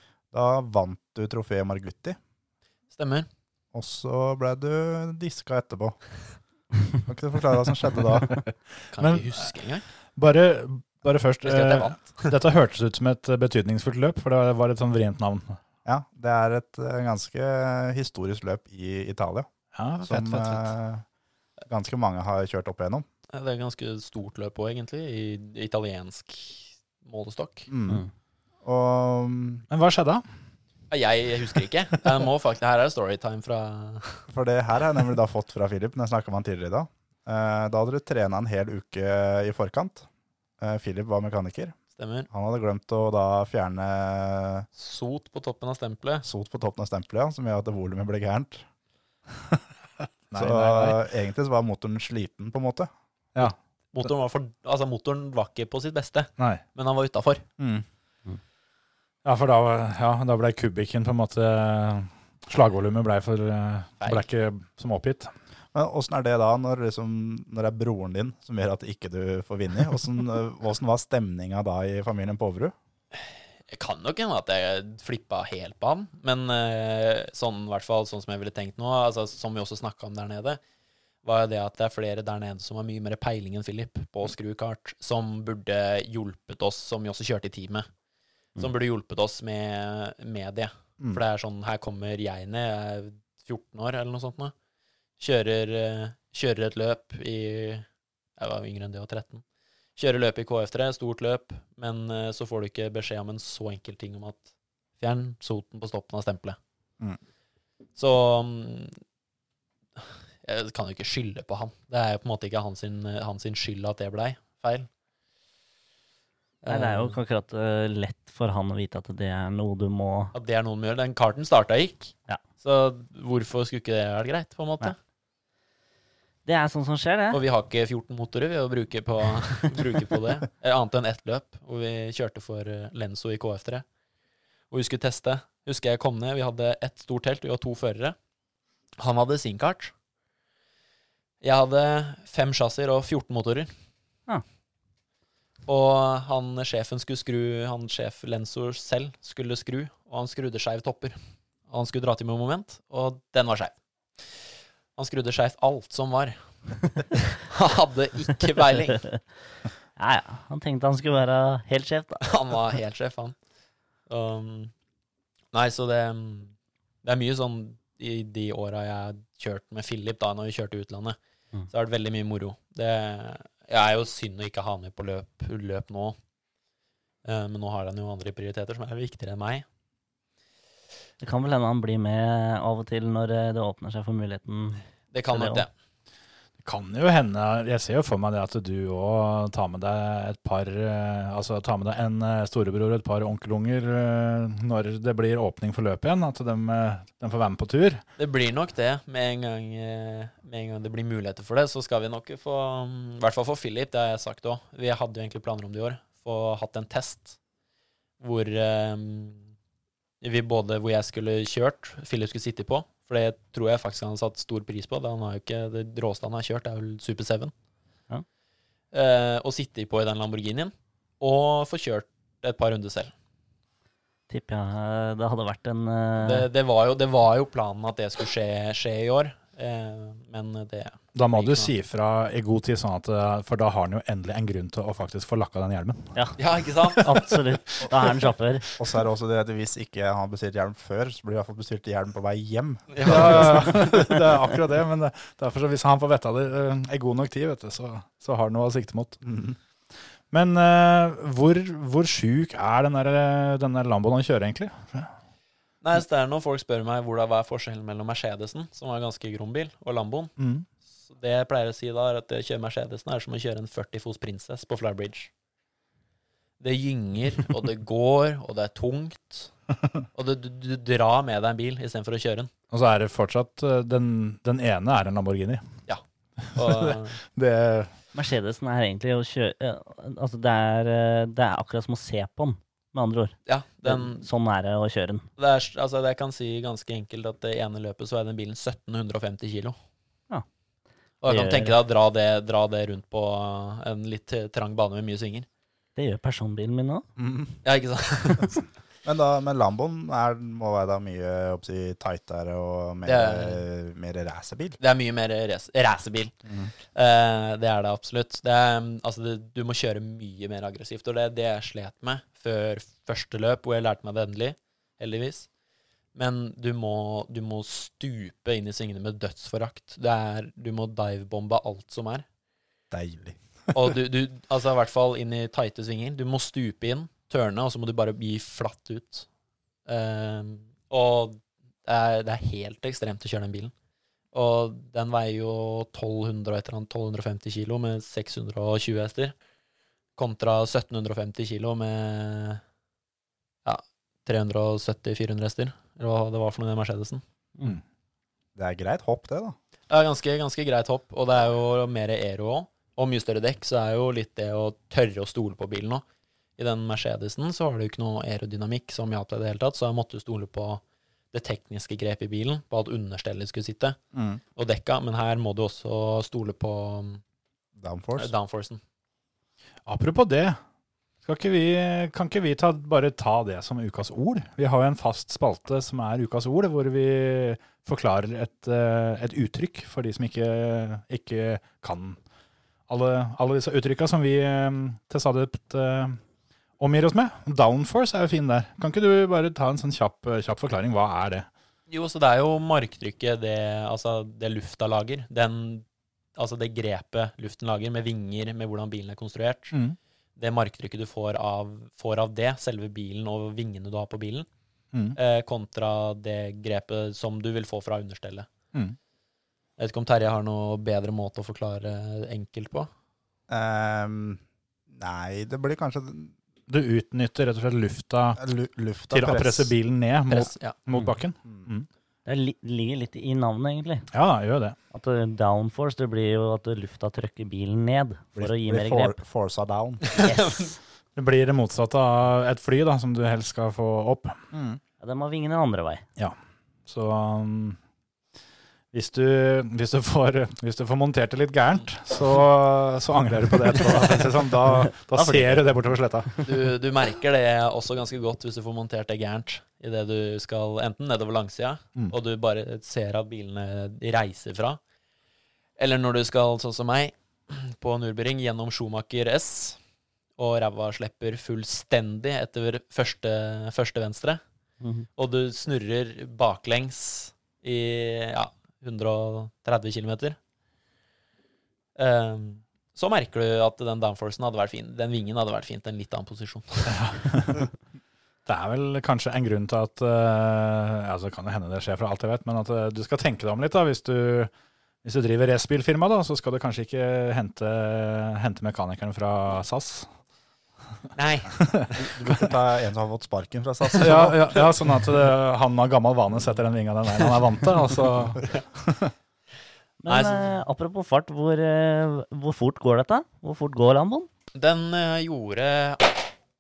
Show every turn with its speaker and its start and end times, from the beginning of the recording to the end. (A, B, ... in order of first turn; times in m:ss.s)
0:00.3-0:02.2 A
0:02.9-0:03.3 B
0:03.7-0:06.0 A
0:07.0-0:08.4 A
0:08.9-0:09.9 B
0:09.0-0:09.5 C
0:10.2-0:15.6 C
0:11.4-0:12.3 B
0:15.8-0:19.5 A
0:19.8-0:20.7 C
0:20.0-0:21.0 A
0:21.7-0:23.1 A
0:23.3-0:27.7 B
0:27.7-0:28.0 A
0:28.6-0:29.6 A
0:29.7-0:30.2 C
0:30.9-0:34.2 B
0:34.3-0:40.1 A
0:40.6-0:41.8 A
0:42.0-0:42.3 B
0:42.3-0:44.7 A
0:44.8-0:46.2 B
0:46.2-0:48.7 A
0:50.3-0:51.0 C
0:50.3-0:52.9 A
0:53.9-0:57.4 B
0:57.6-0:57.8 A
0:59.2-1:05.3 C
1:05.7-1:12.7 A
1:13.7-1:20.6 B
1:21.2-1:27.9 B
1:28.6-1:34.5 B
1:35.2-1:37.9 B
1:38.4-1:39.4 B
1:40.0-1:46.6 B
1:48.0-1:49.0 B
1:50.0-1:54.9 B
1:56.6-1:57.2 B
1:56.7-2:00.3 D
2:00.3-2:05.0 B
2:06.5-2:07.4 D
2:07.3-2:13.8 B
2:14.7-2:18.2 B
2:19.0-2:19.9 B
2:21.4-2:23.7 B
2:25.7-2:31.2 B
2:31.7-2:33.8 B
2:35.0-2:36.4 B
2:37.1-2:39.0 B
2:40.0-2:42.3 D
2:42.2-2:43.4 B
2:44.1-2:44.7 B
2:45.5-2:51.2 B
2:51.7-2:56.2 B
2:57.2-2:59.6 B
3:01.2-3:05.7 D
3:05.1-3:05.7 B
3:06.6-3:18.0 C
3:18.2-3:27.4 B
3:28.2-3:29.5 B
3:30.2-3:37.5 B
3:38.9-3:43.1 B
3:44.3-3:46.5 D
3:46.2-3:51.7 B
3:51.2-3:56.1 C
3:56.4-3:57.4 B
3:57.0-3:58.7 D
3:58.8-4:04.1 A
4:02.9-4:03.8 B
4:03.0-4:09.2 C
4:09.2-4:09.6 A
4:10.3-4:15.1 C
4:15.8-4:20.3 B
4:20.4-4:20.7 C
4:21.1-4:25.3 B
4:26.6-4:29.5 B
4:30.2-4:32.5 B
4:32.7-4:35.6 C
4:36.5-4:37.2 B
4:36.6-4:37.9 C
4:38.1-4:45.3 D
4:43.5-4:44.2 B
4:45.4-4:49.8 B
4:51.2-4:55.5 B
4:51.2-4:51.7 D
4:56.0-4:57.0 D
4:57.2-4:57.6 A
4:57.6-4:58.6 B
4:59.0-5:04.8 A
5:03.1-5:03.6 B
5:04.8-5:06.4 B
5:06.9-5:15.5 B
5:16.2-5:22.2 B
5:22.9-5:23.4 A
5:23.7-5:29.3 B
5:29.9-5:33.7 B
5:34.3-5:39.4 B
5:40.2-5:42.6 B
5:43.6-5:47.2 B
5:48.6-5:49.6 A
5:49.9-5:56.0 B
5:56.6-6:00.8 B
6:01.3-6:04.0 B
6:04.1-6:04.4 A
6:04.6-6:07.2 B
6:07.8-6:08.3 A
6:08.2-6:08.8 B
6:09.9-6:10.6 C
6:11.2-6:22.2 C
6:22.9-6:26.2 C
6:26.8-6:31.5 C
6:31.9-6:35.8 B
6:36.4-6:39.8 B
6:40.4-6:44.5 B
6:44.9-6:45.2 C
6:45.2-6:48.5 B
6:49.8-6:52.9 B
6:53.5-6:56.3 A
6:56.7-6:58.4 C
6:58.4-6:59.8 A
6:59.1-7:01.9 C
7:00.3-7:00.8 B
7:02.3-7:04.1 D
7:04.1-7:04.8 C
7:04.9-7:09.2 D
7:08.4-7:10.2 A
7:10.1-7:10.8 B
7:10.3-7:10.6 D
7:11.2-7:14.5 C
7:14.5-7:14.8 A
7:15.0-7:16.0 D
7:16.9-7:17.8 C
7:18.9-7:26.7 C
7:25.3-7:25.5 D
7:26.4-7:34.8 B
7:35.8-7:39.8 B
7:40.4-7:44.4 B
7:44.8-7:45.1 D
7:45.2-7:50.4 B
7:52.0-7:57.0 B
7:56.9-7:57.7 C
7:58.5-8:04.5 C
8:05.0-8:10.1 C
8:11.2-8:12.0 B
8:11.6-8:11.9 C
8:11.9-8:14.6 A
8:13.9-8:14.3 B
8:14.0-8:19.1 C
8:20.0-8:24.3 D
8:20.1-8:20.5 B
8:24.6-8:26.3 B